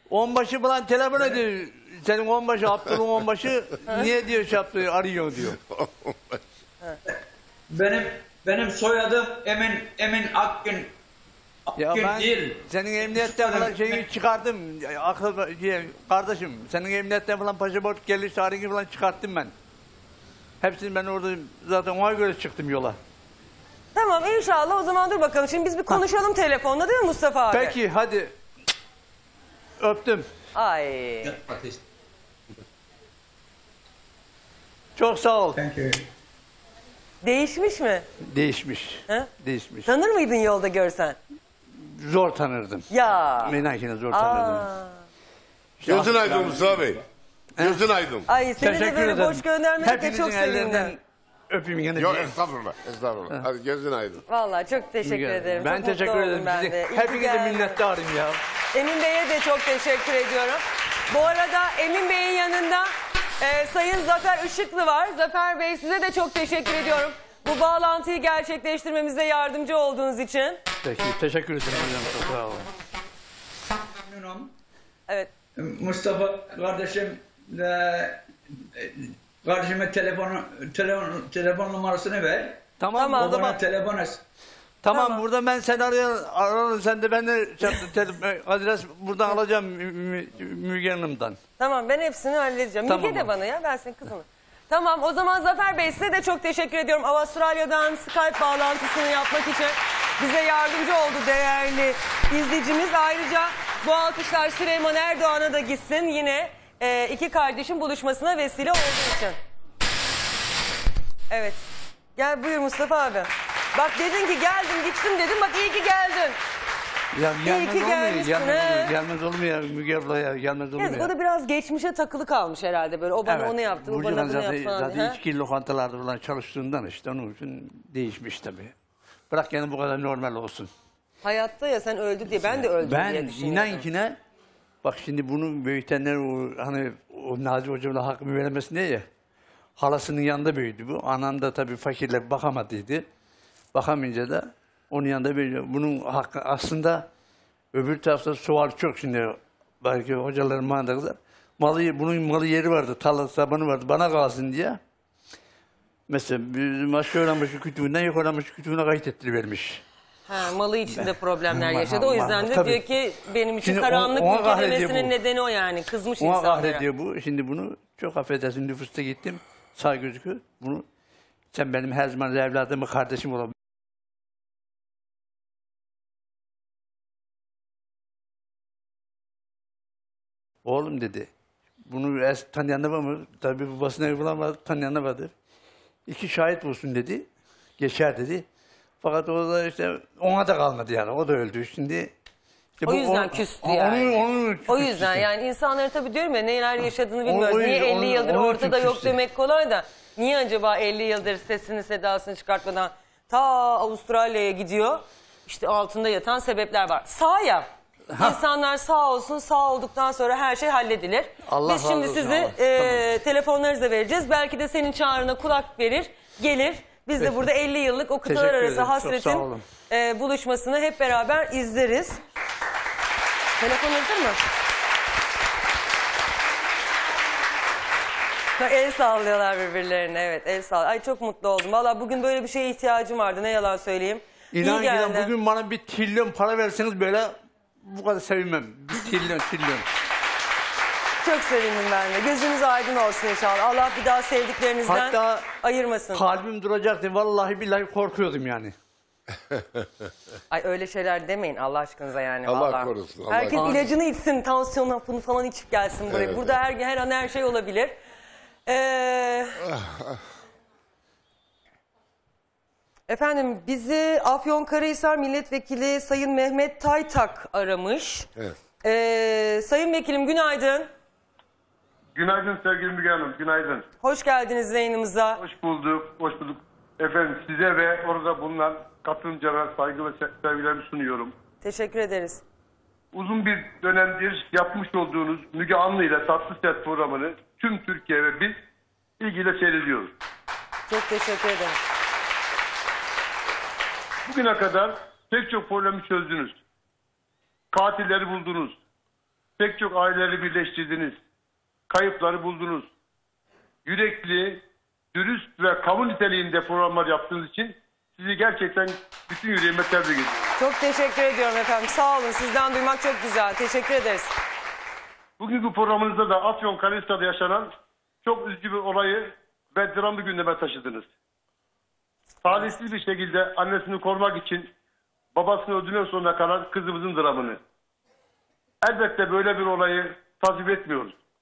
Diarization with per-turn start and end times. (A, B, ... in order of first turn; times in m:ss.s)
0:00.1-0:05.6 A
0:05.7-0:06.4 B
0:07.7-0:10.9 C
0:11.7-0:14.1 C
0:11.8-0:19.5 A
0:20.6-0:23.0 A
0:24.0-0:27.8 D
0:27.5-0:28.3 A
0:29.8-0:30.3 A
0:30.6-0:31.4 D
0:35.0-0:35.6 A
0:35.6-0:36.0 C
0:37.2-0:38.1 D
0:38.3-0:39.9 A
0:39.8-0:41.2 D
0:41.8-0:42.9 A
0:42.9-0:43.6 D
0:43.4-0:44.7 A
0:44.1-0:45.0 D
0:45.8-0:46.8 A
0:45.9-0:47.0 B
0:47.6-0:47.9 A
0:47.6-0:48.3 B
0:48.3-0:51.0 D
0:48.6-0:51.0 A
0:51.5-0:52.4 A
0:52.0-0:54.2 B
0:54.3-0:57.8 D
0:55.0-0:58.4 A
0:58.7-1:10.6 D
1:10.8-1:12.6 A
1:14.0-1:14.5 C
1:15.6-1:24.2 C
1:22.8-1:23.6 A
1:23.0-1:23.4 D
1:24.8-1:31.4 A
1:24.9-1:25.2 D
1:31.6-1:49.4 D
1:32.8-1:33.3 A
1:51.3-1:51.6 D
1:52.2-1:56.4 D
1:57.2-2:01.1 A
1:57.4-1:59.0 D
2:00.8-2:05.2 D
2:03.3-2:08.8 A
2:09.3-2:10.7 A
2:11.2-2:13.9 D
2:12.8-2:14.2 A
2:14.8-2:19.0 A
2:19.8-2:23.1 A
2:23.7-2:27.1 A
2:27.7-2:34.8 A
2:36.1-2:39.8 A
2:40.3-2:46.8 D
2:40.9-2:42.8 A
2:43.6-2:45.1 A
2:46.2-2:50.8 A
2:51.5-2:53.5 A
3:00.6-3:01.3 A
3:01.8-3:05.3 A
3:06.1-3:07.3 A
3:07.8-3:08.4 A
3:09.0-3:12.1 A
3:12.8-3:15.3 A
3:12.8-3:27.7 D
3:17.2-3:19.2 A
3:28.1-3:28.4 A
3:28.2-3:42.2 D
3:31.5-3:33.1 A
3:37.2-3:37.5 A
3:38.2-3:39.6 A
3:43.6-3:44.4 D
3:48.6-3:55.3 D
3:54.5-3:59.8 A
4:01.2-4:06.2 D
4:04.8-4:05.5 A
4:06.1-4:08.7 A
4:10.5-4:18.0 D
4:12.4-4:13.9 B
4:16.1-4:16.5 B
4:18.7-4:19.6 D
4:19.7-4:20.2 B
4:23.1-4:28.3 D
4:28.8-4:30.9 D
4:32.2-4:33.8 E
4:34.0-4:35.4 D
4:35.4-4:41.4 E
4:41.6-4:42.4 D
4:43.1-4:48.6 E
4:49.2-4:50.1 E
4:50.9-4:51.8 D
4:54.3-4:56.6 E
4:57.7-4:58.8 E
4:59.6-5:01.2 E
5:01.9-5:02.9 E
5:03.8-5:04.6 E
5:05.1-5:10.5 E
5:10.6-5:14.3 D
5:15.4-5:17.7 E
5:18.2-5:21.1 E
5:22.4-5:24.7 E
5:25.4-5:27.6 E
5:28.8-5:31.2 E